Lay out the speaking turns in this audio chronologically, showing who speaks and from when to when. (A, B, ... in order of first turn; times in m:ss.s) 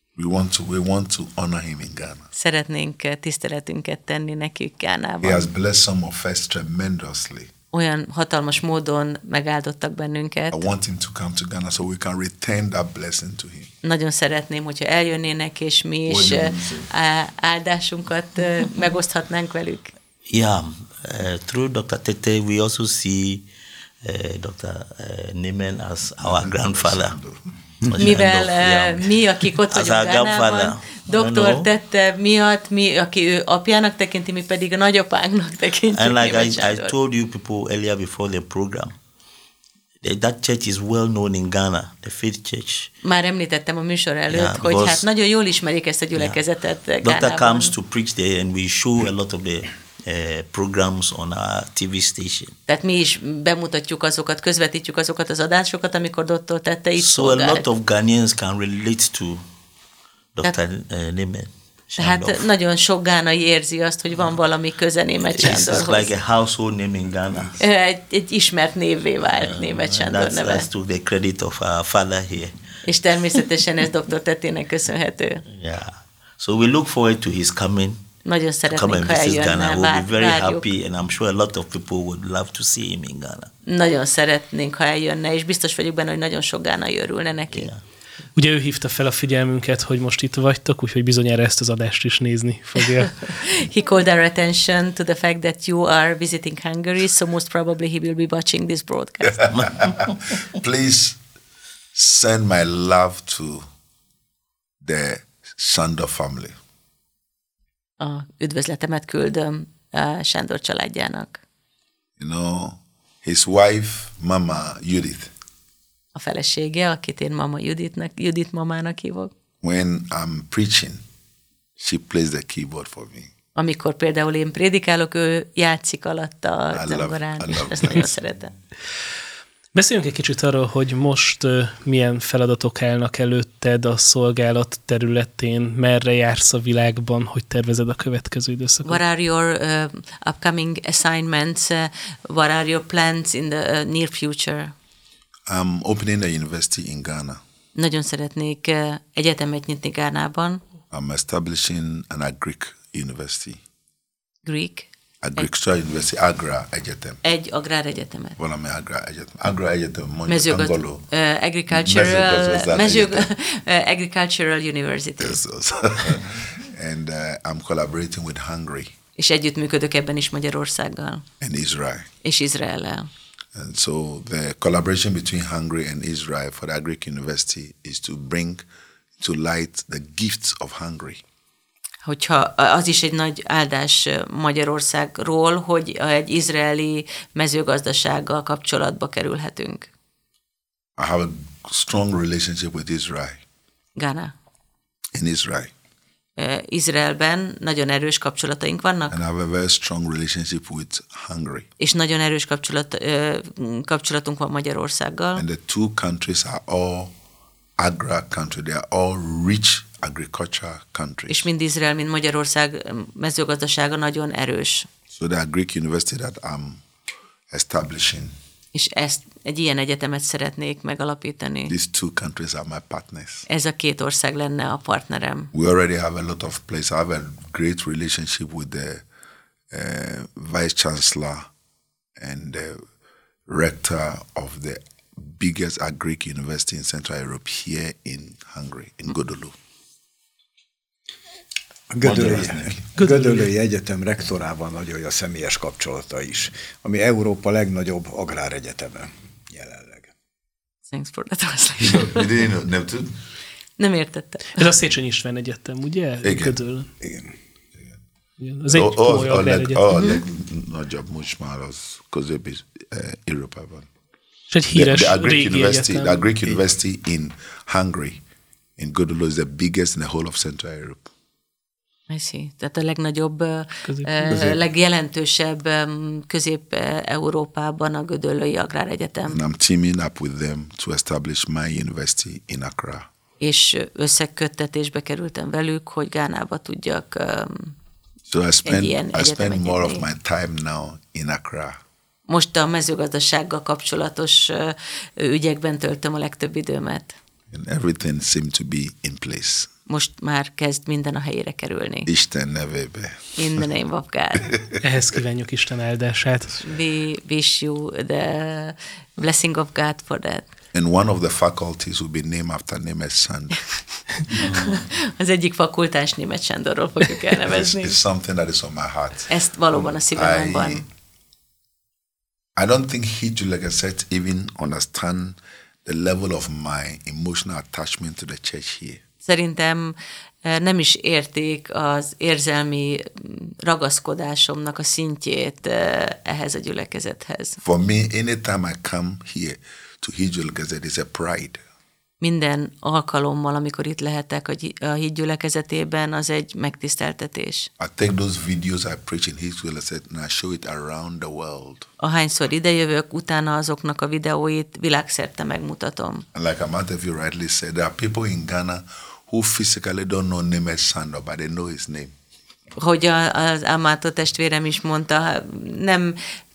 0:00.2-0:02.3 A
0:02.3-0:05.5 B
0:05.2-0:07.5 A
0:07.7-0:10.7 B
0:10.5-0:13.7 A
0:13.8-0:19.9 B
0:16.1-0:16.9 A
0:20.3-0:23.5 C
0:24.0-0:27.2 C
0:26.2-0:27.4 A
0:27.8-0:31.7 C
0:28.0-0:36.9 B
0:35.9-0:39.0 C
0:40.0-0:42.9 C
0:43.0-0:47.8 B
0:44.3-0:45.1 C
0:46.2-0:46.4 C
0:47.0-0:52.6 C
0:52.7-0:57.7 B
0:57.0-0:59.4 C
1:00.4-1:02.5 C
1:02.0-1:06.1 B
1:05.3-1:07.6 C
1:07.6-1:10.7 B
1:09.4-1:12.6 C
1:12.8-1:15.4 B
1:15.5-1:18.0 C
1:18.2-1:20.7 B
1:18.7-1:23.5 C
1:23.7-1:27.7 B
1:27.5-1:27.8 C
1:28.4-1:33.2 D
1:33.0-1:39.6 B
1:39.2-1:41.2 A
1:39.5-1:40.0 C
1:41.9-1:43.7 A
1:44.8-1:46.6 A
1:48.0-1:51.4 B
1:52.2-1:55.3 A
1:56.2-1:59.3 B
1:59.6-2:01.0 A
2:01.8-2:03.3 A
2:03.6-2:08.5 B
2:06.7-2:08.2 A
2:09.8-2:19.0 D
2:18.8-2:24.7 B
2:25.5-2:27.4 A
2:27.8-2:30.6 B
2:30.9-2:33.6 A
2:34.4-2:35.4 B
2:35.2-2:37.2 A
2:37.2-2:38.4 B
2:38.4-2:41.1 A
2:40.3-2:45.4 B
2:41.7-2:43.3 A
2:45.2-2:48.9 A
2:49.2-2:51.2 B
2:51.4-2:52.1 A
2:52.2-2:53.1 B
2:53.6-2:58.6 A
2:59.2-3:01.2 A
3:02.0-3:09.9 B
3:11.0-3:13.4 A
3:14.0-3:14.3 B
3:15.1-3:15.7 A
3:16.4-3:19.2 B
3:19.1-3:21.7 A
3:21.8-3:25.4 B
3:25.4-3:27.1 A
3:27.8-3:31.5 A
3:31.3-3:34.9 B
3:35.1-3:36.8 A
3:37.5-3:38.4 A
3:38.7-3:41.8 B
3:41.7-3:43.5 A
3:43.5-3:45.5 B
3:45.5-3:49.0 A
3:49.7-3:51.5 A
3:52.2-3:52.8 A
3:53.5-3:59.6 A
4:01.9-4:10.1 E
4:02.0-4:02.9 A
4:03.0-4:03.5 D
4:10.9-4:12.3 B
4:11.8-4:13.2 A
4:13.8-4:14.7 B
4:14.6-4:16.9 D
4:16.2-4:16.6 A
4:17.0-4:17.3 E
4:18.4-4:19.8 D
4:18.7-4:23.9 A
4:19.9-4:20.2 B
4:24.5-4:26.3 D
4:24.7-4:28.2 A
4:28.8-4:31.1 A
4:32.1-4:39.4 B
4:33.9-4:34.4 D
4:39.3-4:43.1 A
4:43.4-4:47.8 B
4:48.3-4:51.8 A
4:48.6-4:50.1 B
4:52.3-4:57.2 B
4:57.5-4:59.7 A
4:59.9-5:02.1 B
5:02.1-5:03.7 A
5:03.4-5:04.5 B
5:04.4-5:04.8 A
5:04.8-5:06.7 D
5:06.6-5:10.5 B
5:10.7-5:13.6 A
5:14.3-5:18.0 B
5:14.3-5:14.8 C
5:17.4-5:19.3 A
5:19.3-5:20.8 B
5:20.1-5:20.9 A
5:22.6-5:29.0 A
5:29.2-5:37.6 B
5:37.6-5:41.6 A
5:42.2-5:47.7 B
5:47.8-5:51.9 A
5:52.0-5:56.2 B
5:56.3-6:02.1 A
6:02.8-6:06.2 B